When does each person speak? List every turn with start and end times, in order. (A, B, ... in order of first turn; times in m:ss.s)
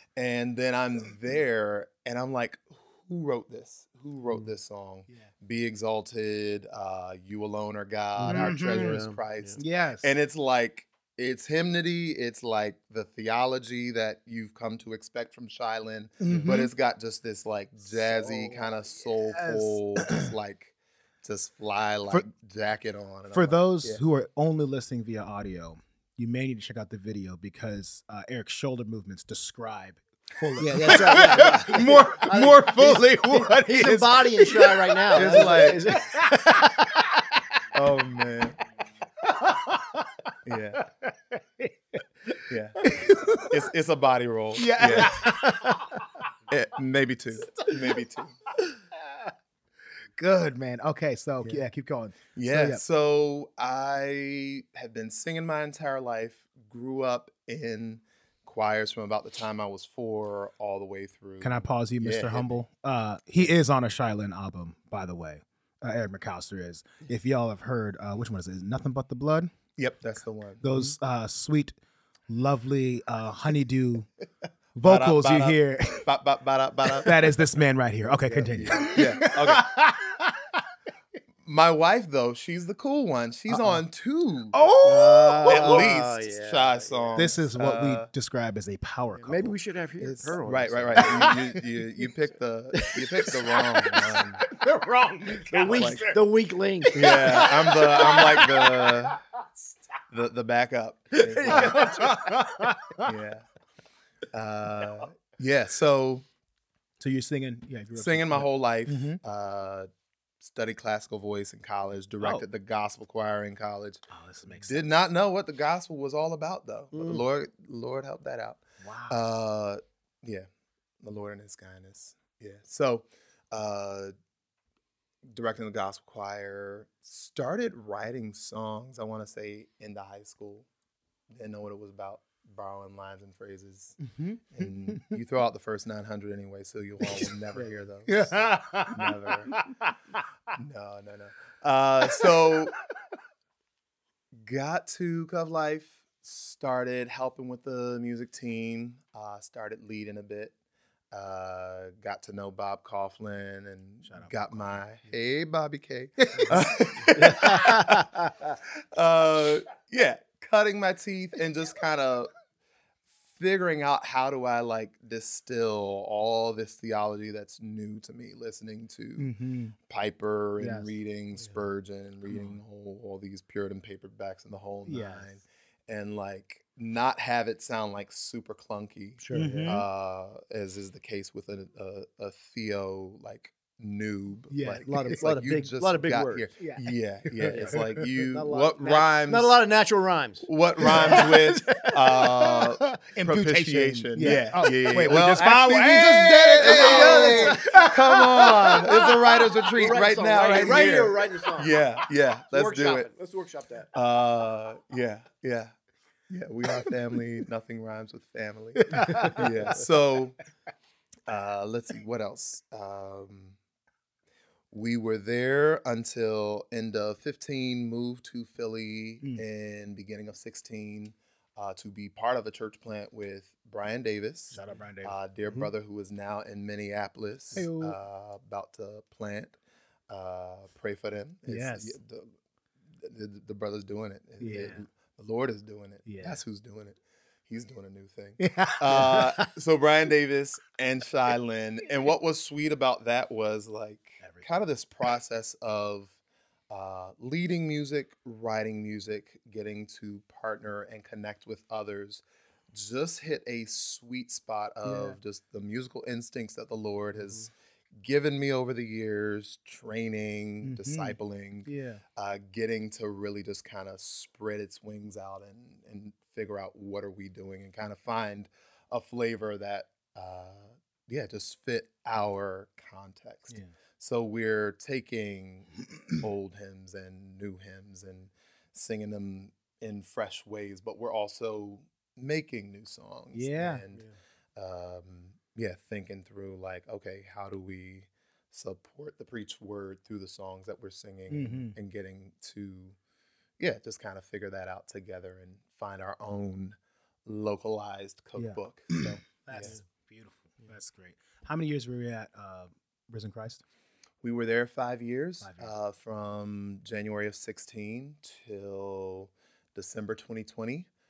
0:00.2-0:24.0 A
0:08.2-0:09.6 B
0:08.3-0:09.0 C
0:09.6-0:10.1 C
0:16.2-0:16.7 C
0:19.0-0:20.3 C
0:23.3-0:37.3 C
0:30.6-0:36.1 B
0:35.1-0:35.9 A
0:37.7-0:38.6 A
0:39.2-0:40.1 C
0:40.4-0:40.8 A
0:40.8-0:43.7 C
0:42.5-0:42.8 A
0:43.4-0:45.3 A
0:44.6-0:46.2 C
0:46.5-0:48.3 A
0:47.5-0:48.0 C
0:48.9-0:49.3 C
0:50.2-0:52.8 C
0:52.3-1:02.6 A
1:01.4-1:09.5 C
1:09.8-1:10.6 A
1:10.6-1:11.7 C
1:12.3-1:14.1 C
1:14.8-1:16.1 C
1:14.8-1:17.4 A
1:17.0-1:20.6 C
1:18.3-1:19.0 B
1:18.3-1:19.7 A
1:21.4-1:24.6 A
1:23.5-1:23.8 C
1:24.5-1:25.9 C
1:24.8-1:27.3 B
1:25.4-1:28.1 A
1:27.1-1:29.5 C
1:29.2-1:31.4 B
1:30.0-1:34.4 A
1:31.0-1:31.6 C
1:32.9-1:36.2 C
1:35.5-1:37.2 B
1:35.6-1:36.0 A
1:36.8-1:39.2 C
1:36.9-1:39.2 A
1:40.1-1:42.1 A
1:41.1-1:43.1 C
1:41.4-1:42.1 B
1:43.0-1:43.4 A
1:44.3-1:46.2 A
1:47.0-1:49.2 C
1:47.9-1:49.9 A
1:50.4-2:00.5 A
1:54.1-1:54.9 C
1:56.9-1:57.2 B
1:58.8-1:59.2 C
2:01.0-2:04.1 A
2:05.2-2:10.7 A
2:11.3-2:19.6 A
2:14.0-2:15.2 C
2:17.0-2:17.3 C
2:18.1-2:20.2 C
2:20.5-2:22.8 A
2:22.2-2:22.5 C
2:24.4-2:30.5 A
2:31.1-2:38.2 A
2:34.0-2:34.9 C
2:36.2-2:38.1 C
2:36.5-2:37.8 B
2:38.9-2:42.3 A
2:43.2-3:09.6 A
2:49.2-2:49.8 C
2:50.6-2:50.9 C
2:52.3-2:52.5 C
2:54.9-2:55.3 C
2:59.2-2:59.8 B
2:59.3-2:59.8 C
3:04.5-3:05.2 C
3:04.8-3:06.5 B
3:06.6-3:08.1 C
3:07.4-3:12.0 B
3:10.4-3:23.1 A
3:11.0-3:19.7 C
3:16.6-3:17.9 B
3:19.7-3:21.8 B
3:22.5-3:23.9 B
3:23.9-3:25.7 A
3:26.3-3:30.4 A
3:28.8-3:29.5 C
3:31.3-3:33.6 A
3:34.7-3:49.6 A
3:44.5-3:45.2 C
3:47.6-3:48.0 C
3:50.1-3:52.3 A
3:51.5-3:52.0 C
3:53.0-4:06.2 A
3:54.4-3:54.8 C
3:56.0-3:56.4 C
3:58.4-3:59.5 C
4:04.2-4:04.5 C
4:06.7-4:53.0 A
4:14.8-4:15.2 C
4:17.2-4:17.5 B
4:20.6-4:22.0 C
4:43.3-4:43.8 C
4:51.3-4:51.8 C
4:53.6-4:59.8 A
4:58.4-5:03.6 C
4:59.6-4:59.8 B
5:04.2-5:10.9 A
5:05.4-5:05.7 C